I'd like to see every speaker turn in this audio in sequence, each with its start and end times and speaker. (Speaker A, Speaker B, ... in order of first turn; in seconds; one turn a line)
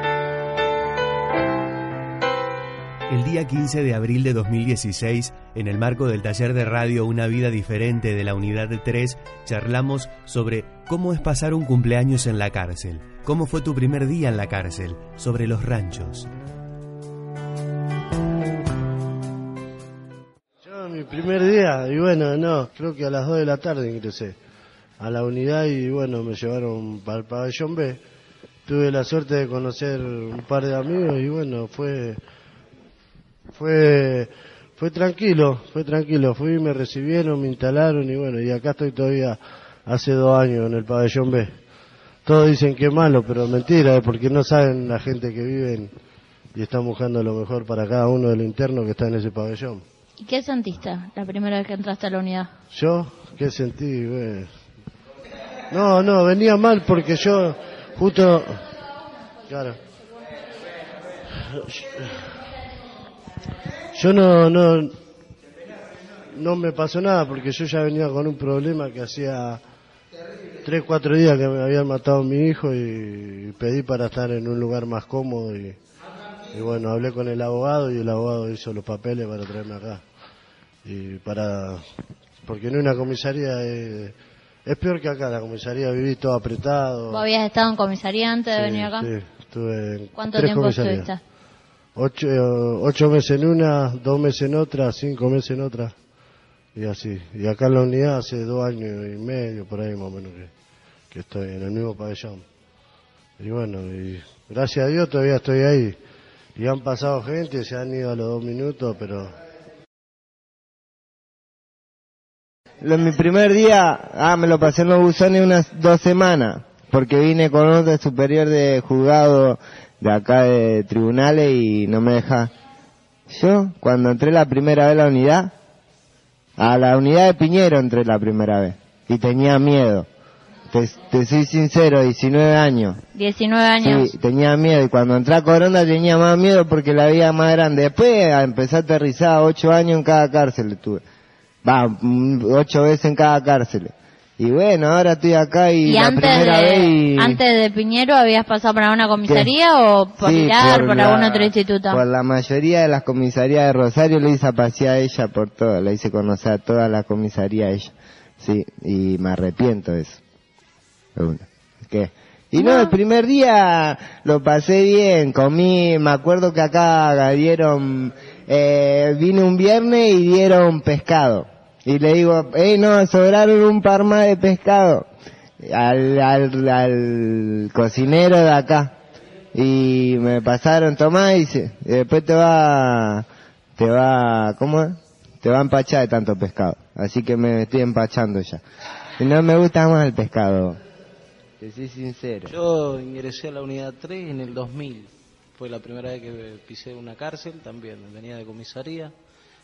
Speaker A: 3.1-16.3
Speaker B: 20.6-24.4
Speaker B: 25.0-28.0
Speaker B: 28.7-32.2
Speaker B: 33.5-41.5
Speaker B: 42.2-45.9
Speaker B: 46.5-49.8
Speaker C: 50.2-52.5
Speaker B: 52.7-54.5
Speaker B: 55.7-58.6
Speaker B: 59.5-59.8
Speaker B: 61.4-62.2
Speaker B: 64.0-64.9
Speaker B: 66.3-69.6
Speaker B: 70.6-75.8
Speaker B: 76.5-80.0
Speaker B: 80.8-81.8
Speaker B: 82.4-84.1
Speaker B: 84.7-87.2
Speaker C: 87.1-89.1
Speaker B: 88.5-91.1
Speaker C: 90.2-91.2
Speaker B: 92.0-95.9
Speaker B: 96.8-100.5
Speaker B: 101.1-102.4
Speaker B: 103.4-106.0
Speaker B: 106.6-109.3
Speaker D: 112.8-122.5
Speaker D: 123.3-125.5
Speaker D: 126.6-130.1
Speaker D: 130.7-133.0
Speaker C: 133.2-134.1
Speaker D: 133.8-141.0
Speaker D: 141.6-147.4
Speaker C: 145.8-152.0
Speaker D: 149.3-149.5
Speaker D: 150.2-160.2
Speaker D: 161.2-175.1
Speaker C: 162.6-162.9
Speaker D: 175.6-178.9
Speaker D: 179.5-183.3
Speaker D: 183.8-188.6
Speaker D: 189.2-190.8
Speaker D: 191.6-192.6
Speaker E: 192.5-199.1